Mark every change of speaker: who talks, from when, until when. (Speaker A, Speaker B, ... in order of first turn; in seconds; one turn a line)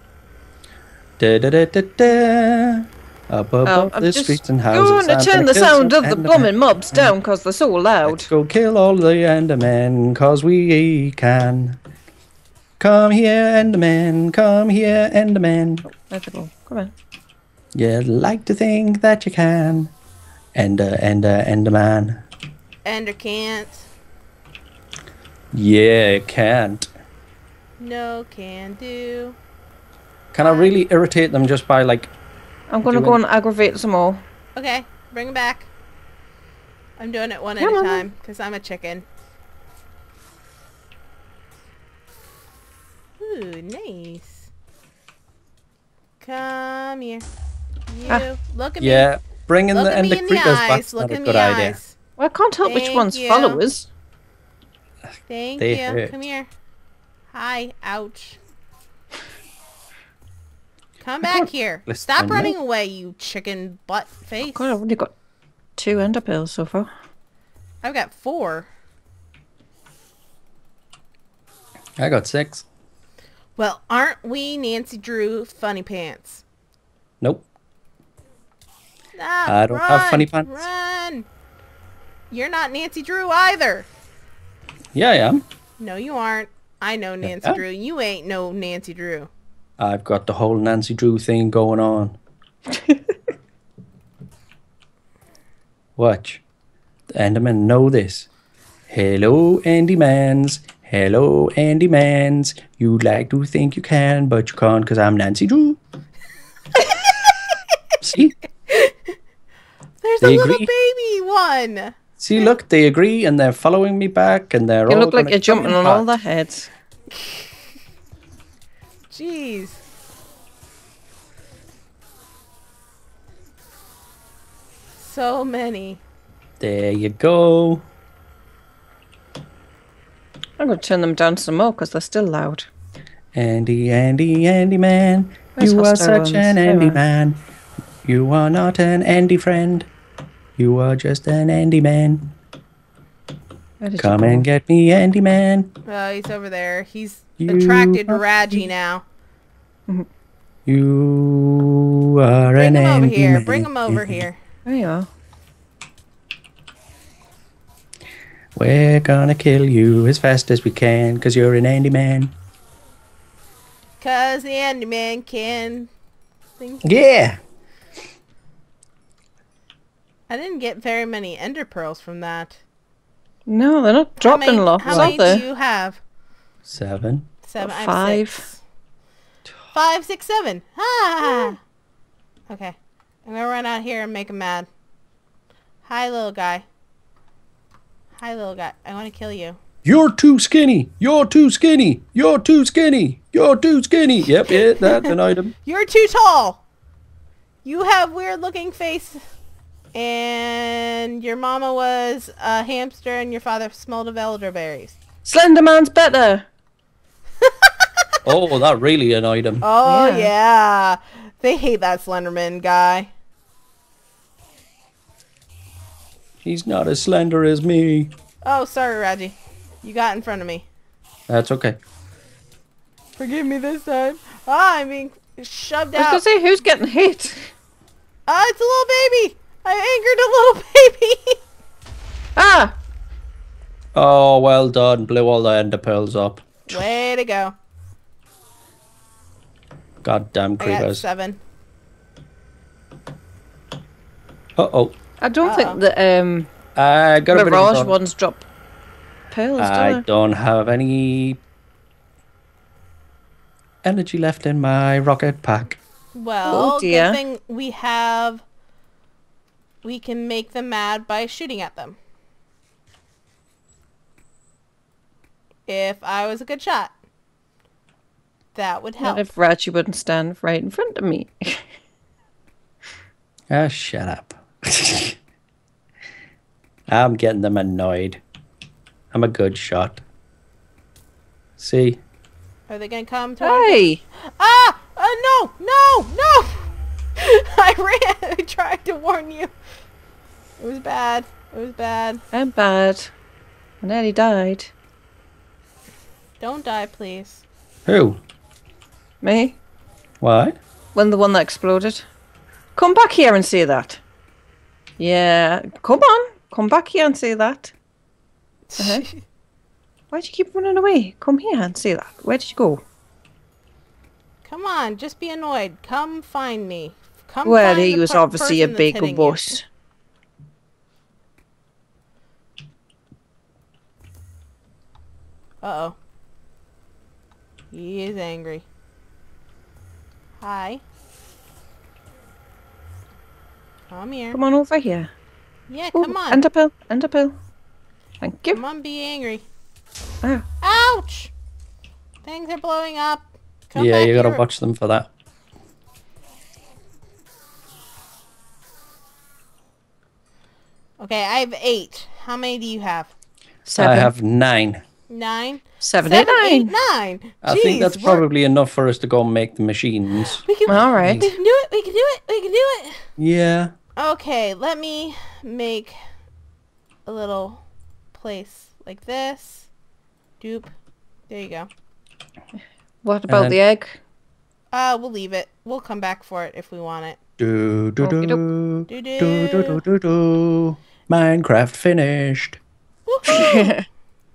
Speaker A: 1.2-7.1
Speaker B: 3.6-8.3
Speaker A: 8.0-11.8
Speaker A: 12.8-15.8
Speaker B: 15.9-16.9
Speaker A: 17.7-19.9
Speaker A: 20.5-22.2
Speaker C: 22.8-23.9
Speaker A: 25.5-26.9
Speaker C: 27.8-29.4
Speaker A: 30.3-32.1
Speaker C: 30.4-30.7
Speaker B: 32.7-34.2
Speaker A: 32.8-33.2
Speaker C: 34.5-35.7
Speaker C: 37.0-39.0
Speaker B: 37.6-38.0
Speaker C: 43.2-44.5
Speaker C: 46.2-47.3
Speaker C: 47.9-49.1
Speaker A: 48.8-51.8
Speaker C: 49.7-51.9
Speaker B: 52.2-53.9
Speaker C: 52.6-53.6
Speaker C: 55.3-56.5
Speaker A: 55.6-56.1
Speaker C: 57.3-58.4
Speaker C: 61.0-64.8
Speaker A: 61.9-62.5
Speaker B: 64.4-65.1
Speaker B: 65.8-66.9
Speaker C: 67.8-68.7
Speaker A: 72.0-72.6
Speaker C: 73.5-76.4
Speaker A: 77.2-77.5
Speaker C: 79.1-81.3
Speaker A: 79.5-80.5
Speaker C: 82.3-83.9
Speaker A: 84.9-85.4
Speaker C: 85.8-89.3
Speaker A: 87.2-87.6
Speaker A: 89.8-92.2
Speaker A: 96.0-96.4
Speaker A: 97.1-98.3
Speaker A: 98.9-105.8
Speaker C: 106.8-107.5
Speaker A: 108.0-108.3
Speaker C: 108.7-109.1
Speaker C: 110.0-112.5
Speaker A: 110.2-110.7
Speaker A: 112.2-116.1
Speaker B: 114.9-116.7
Speaker C: 119.1-119.8
Speaker C: 125.0-126.0
Speaker A: 126.6-127.8
Speaker B: 130.6-132.7
Speaker A: 133.3-137.4
Speaker B: 135.6-137.0
Speaker A: 138.0-139.9
Speaker A: 140.6-142.3
Speaker B: 143.8-144.4
Speaker A: 144.0-145.7
Speaker C: 145.8-149.0
Speaker A: 147.4-148.6
Speaker A: 150.7-154.2
Speaker C: 152.4-154.4
Speaker B: 154.7-155.1
Speaker A: 158.5-162.3
Speaker C: 164.0-165.9
Speaker C: 166.6-166.9
Speaker A: 166.8-167.4
Speaker C: 170.3-172.6
Speaker B: 173.5-175.4
Speaker C: 174.2-176.0
Speaker A: 174.8-175.3
Speaker A: 176.6-177.3
Speaker C: 177.4-178.6
Speaker B: 177.6-178.4
Speaker C: 179.7-181.6
Speaker C: 182.5-184.7
Speaker C: 185.8-186.6
Speaker C: 188.2-189.6
Speaker A: 189.8-195.5
Speaker C: 194.5-196.6
Speaker C: 197.6-199.2
Speaker C: 199.9-205.0
Speaker B: 205.2-206.4
Speaker C: 207.4-207.9
Speaker A: 208.2-209.7
Speaker C: 209.6-213.1
Speaker B: 209.8-210.3
Speaker A: 216.4-218.1
Speaker C: 218.4-220.7
Speaker A: 221.3-221.8
Speaker C: 223.2-226.2
Speaker B: 225.9-227.5
Speaker C: 228.3-231.4
Speaker B: 232.3-232.7
Speaker A: 233.9-236.5
Speaker C: 236.7-237.5
Speaker A: 240.0-241.0
Speaker C: 240.6-241.4
Speaker A: 244.6-244.9
Speaker B: 245.2-246.5
Speaker C: 245.4-245.8
Speaker A: 246.8-247.9
Speaker B: 247.3-248.4
Speaker B: 249.3-250.0
Speaker A: 249.6-251.4
Speaker A: 253.8-255.8
Speaker C: 256.1-258.4
Speaker B: 256.5-257.2
Speaker C: 259.8-262.0
Speaker C: 265.7-266.9
Speaker C: 268.5-269.3
Speaker B: 269.0-271.6
Speaker A: 273.5-275.2
Speaker A: 276.9-278.2
Speaker A: 279.1-280.0
Speaker A: 281.6-282.0
Speaker C: 282.7-289.5
Speaker B: 283.4-284.0
Speaker C: 290.6-292.2
Speaker B: 292.3-293.1
Speaker B: 293.8-294.7
Speaker C: 296.4-297.4
Speaker A: 297.9-298.2
Speaker B: 299.2-299.6
Speaker A: 300.2-300.6
Speaker B: 300.9-302.1
Speaker B: 302.8-304.0
Speaker B: 305.0-307.7
Speaker C: 308.7-309.2
Speaker B: 308.8-309.1
Speaker B: 310.1-312.8
Speaker C: 314.4-319.6
Speaker B: 317.4-319.6
Speaker C: 325.6-325.9
Speaker C: 327.7-328.6
Speaker C: 330.4-330.8
Speaker C: 333.9-334.4
Speaker B: 334.3-335.1
Speaker C: 335.7-336.4
Speaker B: 335.9-337.4
Speaker B: 338.2-338.6
Speaker C: 338.5-339.4
Speaker C: 340.6-341.3
Speaker C: 342.2-344.4
Speaker A: 343.8-345.1
Speaker C: 351.0-353.1
Speaker B: 353.6-354.1
Speaker A: 353.8-354.8
Speaker C: 355.1-358.2
Speaker B: 355.8-356.7
Speaker A: 357.4-361.3
Speaker C: 360.2-363.0
Speaker B: 360.7-361.3
Speaker A: 363.2-363.7
Speaker C: 364.0-365.9
Speaker C: 367.1-369.7
Speaker C: 370.4-370.7
Speaker C: 371.3-371.7
Speaker B: 373.0-374.0
Speaker A: 373.3-373.6
Speaker C: 374.7-377.2
Speaker A: 377.4-382.6
Speaker B: 378.0-378.4
Speaker C: 378.9-379.8
Speaker C: 383.1-383.7
Speaker B: 383.3-383.8